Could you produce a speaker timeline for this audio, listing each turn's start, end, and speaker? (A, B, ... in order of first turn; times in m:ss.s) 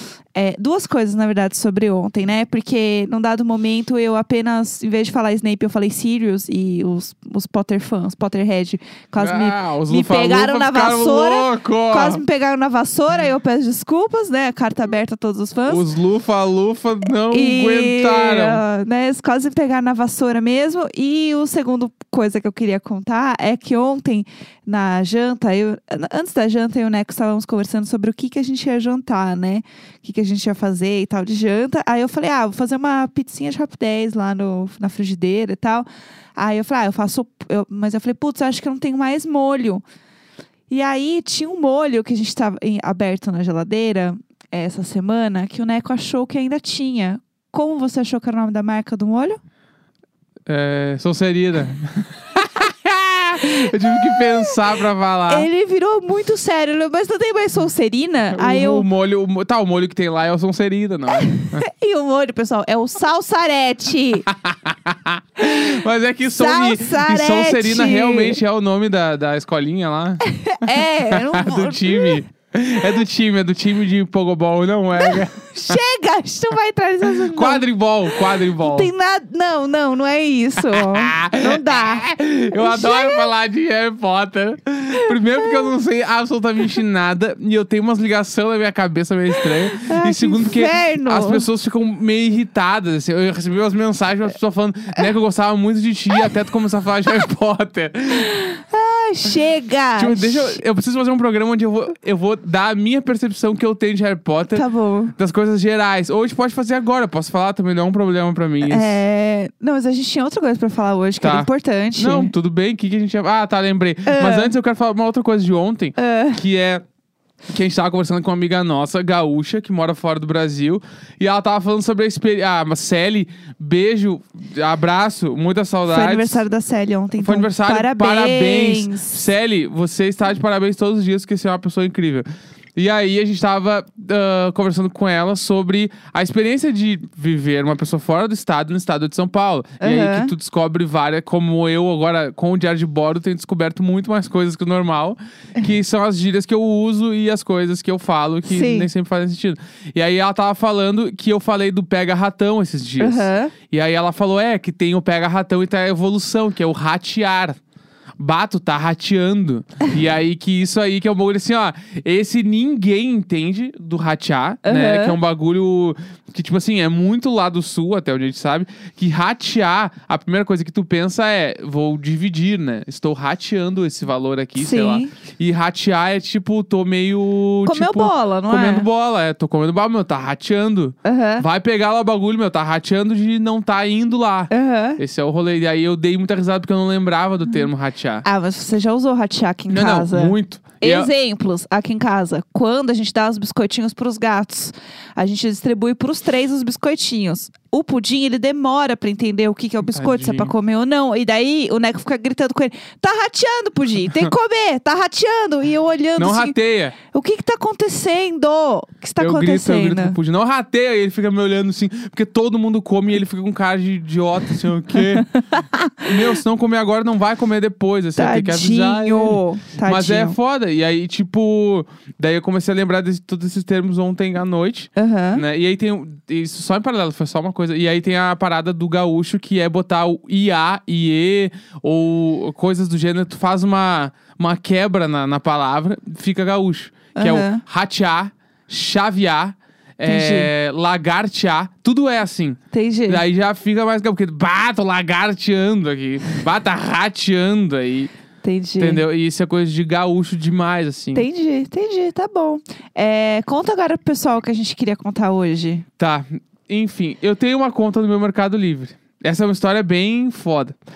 0:00.3-0:15.9 A
0:09.2-0:12.2 B
0:15.7-0:18.6 B
0:17.3-0:39.8 A
0:40.7-0:49.4 A
0:50.5-0:55.5 B
0:54.0-0:54.6 A
0:55.3-0:58.9 A
0:58.3-1:01.6 B
1:01.1-1:04.3 A
1:04.3-1:15.8 B
1:06.2-1:08.4 A
1:10.2-1:12.2 A
1:15.0-1:23.3 A
1:17.2-1:18.9 B
1:20.6-1:38.3 B
1:25.1-1:25.7 A
1:29.3-1:31.5 A
1:38.2-1:40.6 A
1:40.0-1:44.6 B
1:44.5-1:45.1 A
1:45.2-1:49.0 B
1:48.6-1:52.3 A
1:51.2-1:56.8 B
1:54.1-1:54.5 A
1:56.0-1:56.4 A
1:57.5-2:06.4 B
2:05.9-2:09.3 A
2:07.2-2:37.6 B
2:19.8-2:20.3 A
2:28.5-2:28.9 A
2:33.0-2:33.5 A
2:38.2-3:08.3 B
2:44.6-2:45.2 A
2:54.6-2:55.1 A
2:57.6-2:58.9 A
3:01.0-3:01.4 A
3:04.5-3:05.0 A
3:08.2-3:30.2 A
3:09.7-3:11.1 B
3:19.9-3:20.5 B
3:26.2-3:27.0 B
3:29.2-3:35.3 B
3:35.0-3:36.2 A
3:36.0-4:08.1 B
3:38.2-3:40.4 A
3:45.0-3:45.4 A
3:57.2-3:57.6 A
4:00.0-4:00.5 A
4:02.7-4:03.2 A
4:08.4-4:09.0 A
4:08.8-4:11.3 B
4:11.1-4:15.8 A
4:16.0-4:20.8 B